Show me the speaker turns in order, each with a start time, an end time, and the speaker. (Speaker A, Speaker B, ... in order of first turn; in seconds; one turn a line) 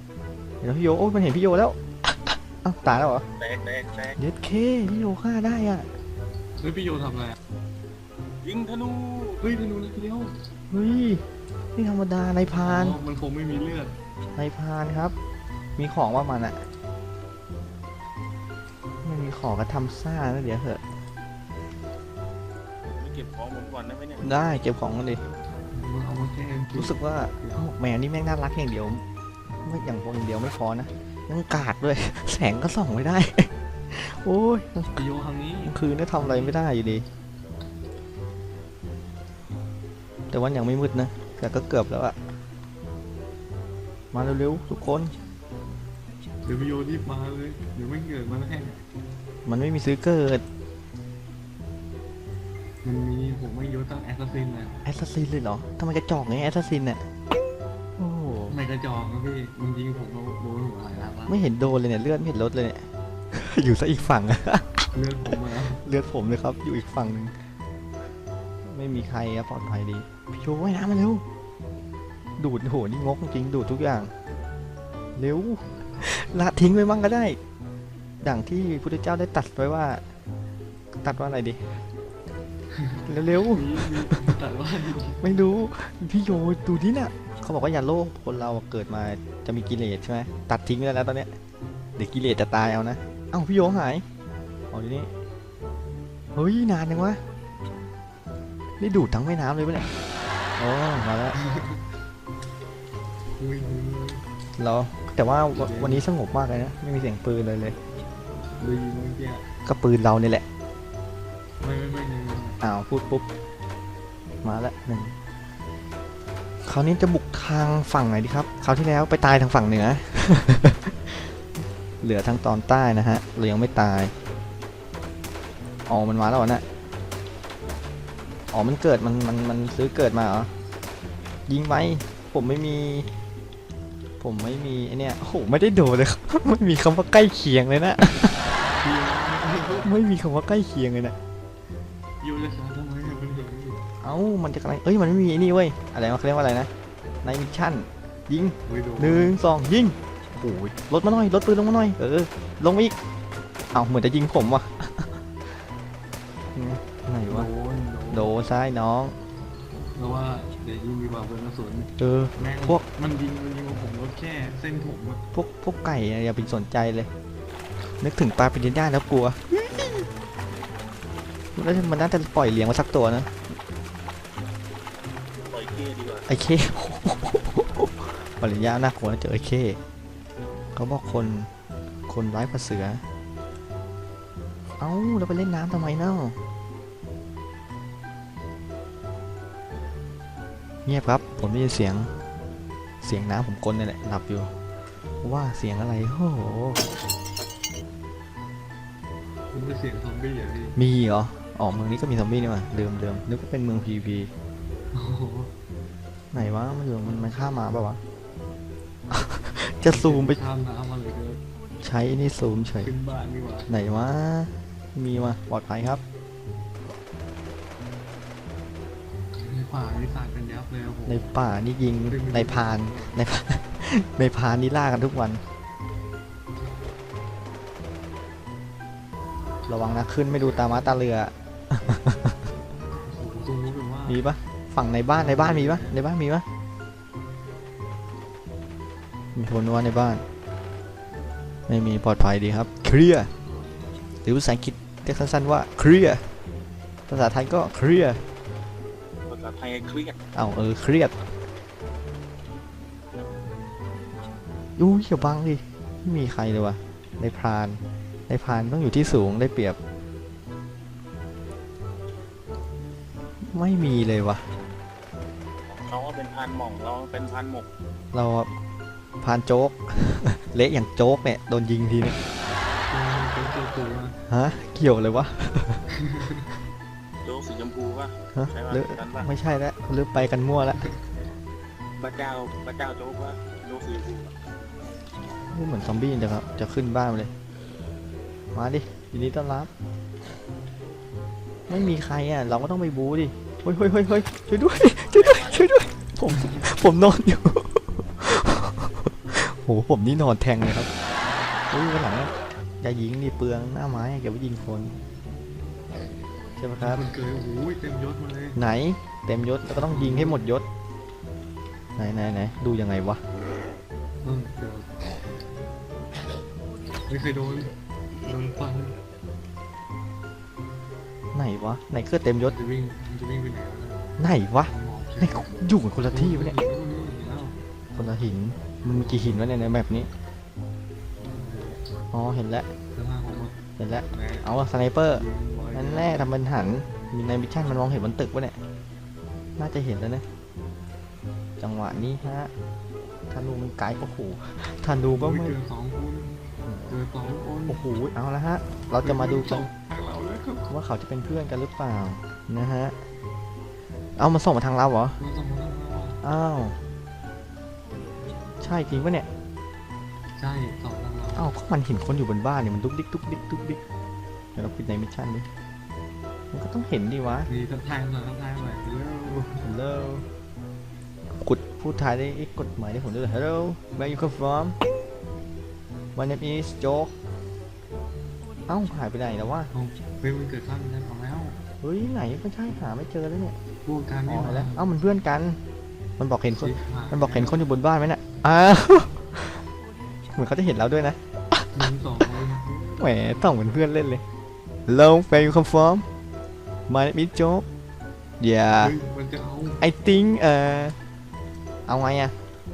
Speaker A: 0.6-3.2
Speaker B: 3.4-4.2
Speaker A: 4.2-5.9
Speaker C: 6.6-7.3
Speaker B: 8.4-9.4
Speaker C: 9.4-10.3
Speaker A: 10.7-11.2
Speaker A: 11.7-13.0
Speaker C: 12.5-14.0
Speaker A: 14.3-15.1
Speaker A: 15.8-16.6
Speaker A: 19.0-20.8
Speaker B: 23.0-24.4
Speaker A: 24.2-25.2
Speaker C: 25.7-27.7
Speaker A: 26.7-29.0
Speaker A: 29.6-35.0
Speaker C: 34.9-36.6
Speaker A: 35.6-37.0
Speaker A: 40.3-42.1
Speaker A: 44.1-45.2
Speaker C: 46.4-48.8
Speaker A: 49.5-50.4
Speaker C: 52.8-54.8
Speaker A: 54.8-57.0
Speaker A: 58.0-58.6
Speaker C: 58.5-61.4
Speaker A: 61.3-67.3
Speaker C: 64.9-65.8
Speaker A: 68.6-71.2
Speaker A: 72.4-74.1
Speaker A: 75.2-77.4
Speaker A: 78.2-80.0
Speaker A: 81.0-81.6
Speaker C: 82.7-85.2
Speaker A: 83.0-84.2
Speaker A: 85.2-91.3
Speaker A: 92.0-94.0
Speaker A: 94.7-95.1
Speaker A: 96.3-97.2
Speaker A: 98.8-99.8
Speaker A: 100.6-101.4
Speaker C: 101.3-101.8
Speaker C: 103.4-104.2
Speaker A: 104.6-107.8
Speaker C: 105.5-106.0
Speaker C: 108.6-109.4
Speaker A: 109.6-110.4
Speaker C: 111.6-112.6
Speaker A: 112.6-113.3
Speaker A: 114.4-115.1
Speaker A: 116.6-121.3
Speaker A: 122.0-124.1
Speaker A: 125.9-126.6
Speaker A: 128.5-130.5
Speaker A: 131.5-133.1
Speaker A: 134.2-138.5
Speaker C: 138.6-139.9
Speaker A: 139.8-141.1
Speaker C: 142.2-143.8
Speaker A: 144.0-146.7
Speaker A: 147.2-153.0
Speaker C: 148.7-149.4
Speaker A: 153.7-155.2
Speaker A: 156.5-157.5
Speaker C: 157.3-158.3
Speaker A: 158.1-159.1
Speaker C: 159.9-165.2
Speaker A: 162.0-162.8
Speaker A: 165.3-167.1
Speaker A: 168.0-170.1
Speaker A: 171.5-173.3
Speaker B: 175.5-176.2
Speaker A: 176.3-179.8
Speaker A: 180.7-181.5
Speaker A: 182.1-183.0
Speaker A: 184.8-186.4
Speaker A: 190.8-192.1
Speaker A: 193.0-194.5
Speaker A: 195.2-196.9
Speaker C: 199.5-200.8
Speaker A: 200.7-204.3
Speaker C: 204.9-205.5
Speaker A: 206.3-208.0
Speaker A: 209.1-210.4
Speaker C: 209.8-211.4
Speaker A: 211.8-212.9
Speaker C: 212.8-213.7
Speaker A: 213.7-216.0
Speaker C: 219.3-221.3
Speaker A: 221.1-225.4
Speaker C: 222.1-223.2
Speaker A: 229.7-232.4
Speaker C: 233.0-234.2
Speaker A: 234.1-236.4
Speaker C: 235.1-235.9
Speaker A: 239.3-240.2
Speaker A: 241.7-243.3
Speaker A: 244.2-246.2
Speaker A: 247.1-248.2
Speaker B: 249.3-250.2
Speaker A: 250.3-251.2
Speaker A: 254.8-259.8
Speaker A: 263.5-264.4
Speaker B: 265.7-267.7
Speaker A: 268.1-268.5
Speaker A: 269.2-272.2
Speaker C: 272.9-274.1
Speaker A: 274.3-275.8
Speaker C: 276.0-276.4
Speaker B: 277.2-279.3
Speaker A: 278.3-280.9
Speaker B: 282.0-284.3
Speaker A: 285.5-287.3
Speaker A: 288.5-289.7
Speaker A: 291.7-300.9
Speaker B: 295.0-295.7
Speaker A: 301.7-304.9
Speaker A: 306.6-307.0
Speaker C: 306.8-308.6
Speaker A: 308.5-310.6
Speaker C: 309.7-310.4
Speaker A: 311.9-313.2
Speaker C: 314.2-315.0
Speaker C: 317.1-318.9
Speaker A: 321.3-322.6
Speaker C: 322.4-324.1
Speaker A: 324.2-326.6
Speaker C: 324.6-325.5
Speaker C: 326.1-327.6
Speaker A: 327.9-330.1
Speaker C: 328.9-329.4
Speaker C: 331.2-331.8
Speaker A: 332.1-332.7
Speaker C: 332.9-333.6
Speaker A: 333.8-338.6
Speaker C: 334.1-334.5
Speaker C: 335.1-336.3
Speaker A: 339.6-340.2
Speaker A: 341.6-342.5
Speaker A: 343.3-345.6
Speaker C: 345.1-346.4
Speaker A: 346.6-347.0
Speaker C: 346.9-347.8
Speaker A: 347.7-349.7
Speaker C: 348.9-350.7
Speaker A: 350.7-352.9
Speaker A: 354.2-355.2
Speaker C: 355.2-356.2
Speaker A: 356.2-356.8
Speaker A: 358.6-359.3
Speaker C: 360.4-361.5
Speaker A: 361.4-363.8
Speaker A: 364.5-365.4
Speaker A: 366.5-367.5
Speaker C: 367.5-369.6
Speaker A: 369.6-370.2
Speaker A: 371.4-374.8
Speaker A: 376.1-377.1
Speaker A: 378.7-379.7
Speaker C: 379.7-381.6
Speaker A: 381.8-383.6
Speaker C: 383.8-384.8
Speaker A: 384.3-385.6
Speaker A: 386.2-389.6
Speaker C: 386.6-387.6
Speaker A: 390.3-392.3
Speaker C: 391.7-393.1
Speaker A: 393.0-394.2
Speaker A: 394.9-396.0
Speaker A: 396.9-397.6
Speaker A: 398.4-398.9
Speaker C: 398.8-399.8
Speaker A: 399.8-400.9
Speaker A: 401.9-402.3